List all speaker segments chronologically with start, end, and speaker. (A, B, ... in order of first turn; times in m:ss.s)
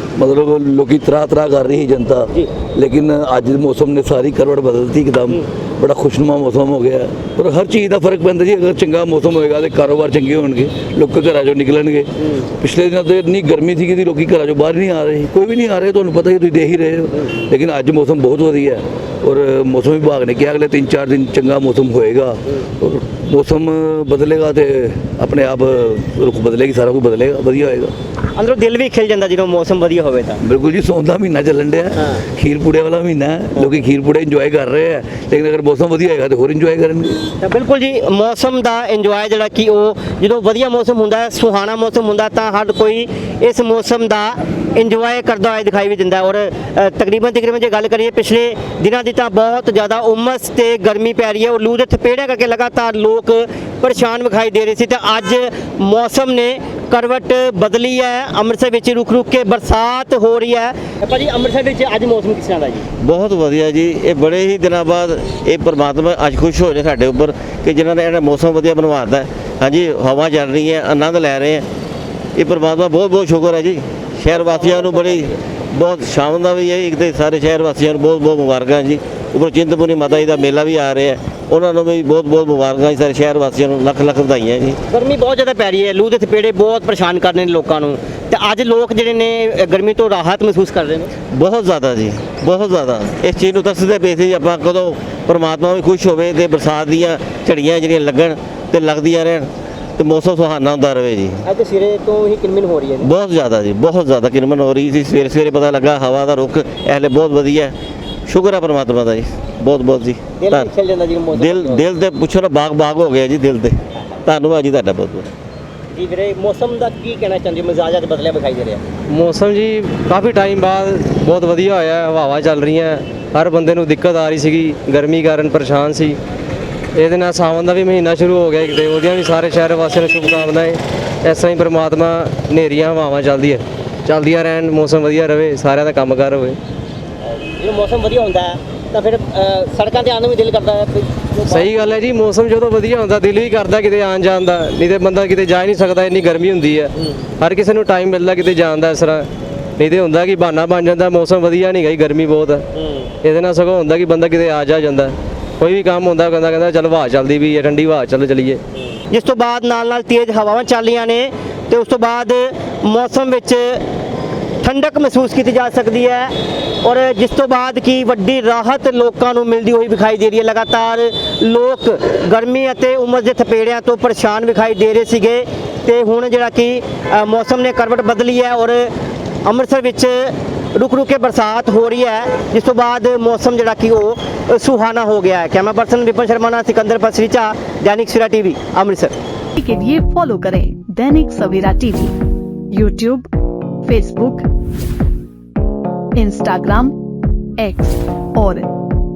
0:00.2-0:27.9 A
0:28.4-0:30.4 B
0:30.4-0:37.2 A
0:37.4-1:02.8 B
1:03.0-1:11.7 C
1:12.4-1:24.8 C
1:24.9-1:31.1 B
1:31.4-1:41.4 C
1:41.6-1:42.9 B
1:43.0-1:47.8 C
1:48.3-1:50.7 C
1:50.5-1:51.8 B
1:51.3-1:55.3 C
1:56.0-1:58.8 B
1:59.1-2:06.2 D
2:07.0-2:16.6 D
2:17.6-2:18.4 B
2:19.0-2:20.9 B
2:21.4-2:32.6 D
2:33.2-2:38.6 D
2:39.1-2:43.8 B
2:44.6-2:46.3 B
2:46.8-2:58.9 B
2:59.4-3:09.2 B
3:09.6-3:12.1 E
3:12.7-3:13.3 E
3:13.8-3:14.5 E
3:16.2-3:16.9 E
3:17.6-3:18.6 E